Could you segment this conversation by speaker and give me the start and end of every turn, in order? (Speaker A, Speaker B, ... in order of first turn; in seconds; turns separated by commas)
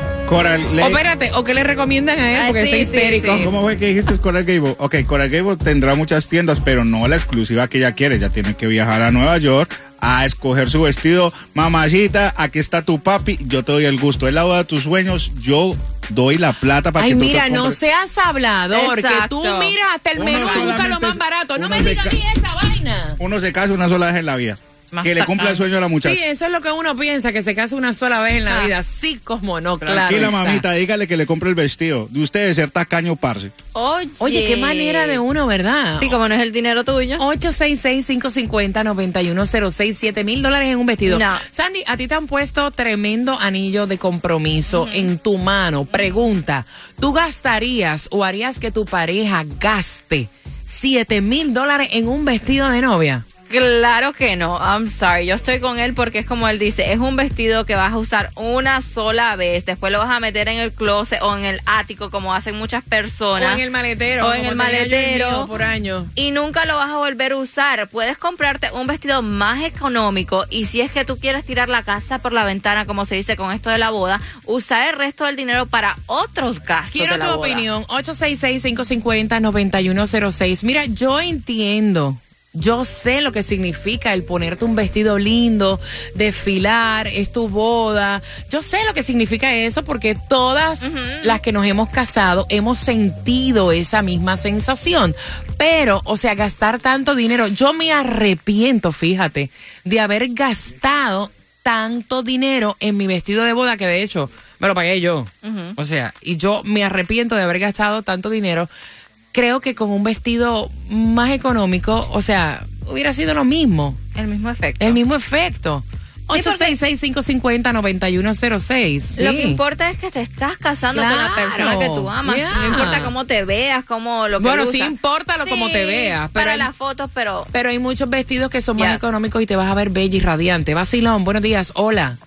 Speaker A: 0.3-1.0, Speaker B: 0.8-3.5, Speaker C: 2.3-3.4, Speaker A: 3.3-17.8, Speaker B: 17.0-23.2, Speaker C: 18.7-19.7, Speaker A: 20.1-22.1, Speaker C: 20.3-20.7, Speaker A: 23.2-26.2, Speaker C: 24.9-25.6, Speaker B: 26.0-30.6, Speaker C: 28.4-28.7, Speaker A: 29.8-33.5, Speaker C: 33.7-35.2, Speaker B: 34.2-36.1, Speaker C: 36.0-37.2, Speaker B: 37.2-53.2, Speaker C: 41.0-41.4, Speaker C: 44.7-45.1, Speaker C: 53.5-63.6, Speaker B: 63.4-66.1, Speaker C: 64.2-65.5, Speaker C: 66.2-77.6, Speaker B: 76.9-108.7, Speaker C: 90.8-91.4, Speaker C: 105.4-105.7, Speaker B: 109.3-114.0, Speaker C: 114.1-115.0, Speaker B: 114.8-119.6, Speaker C: 116.3-116.7, Speaker C: 119.2-124.9, Speaker B: 120.9-123.1, Speaker B: 124.4-126.7, Speaker C: 125.4-127.5, Speaker B: 127.5-132.2, Speaker C: 128.8-129.0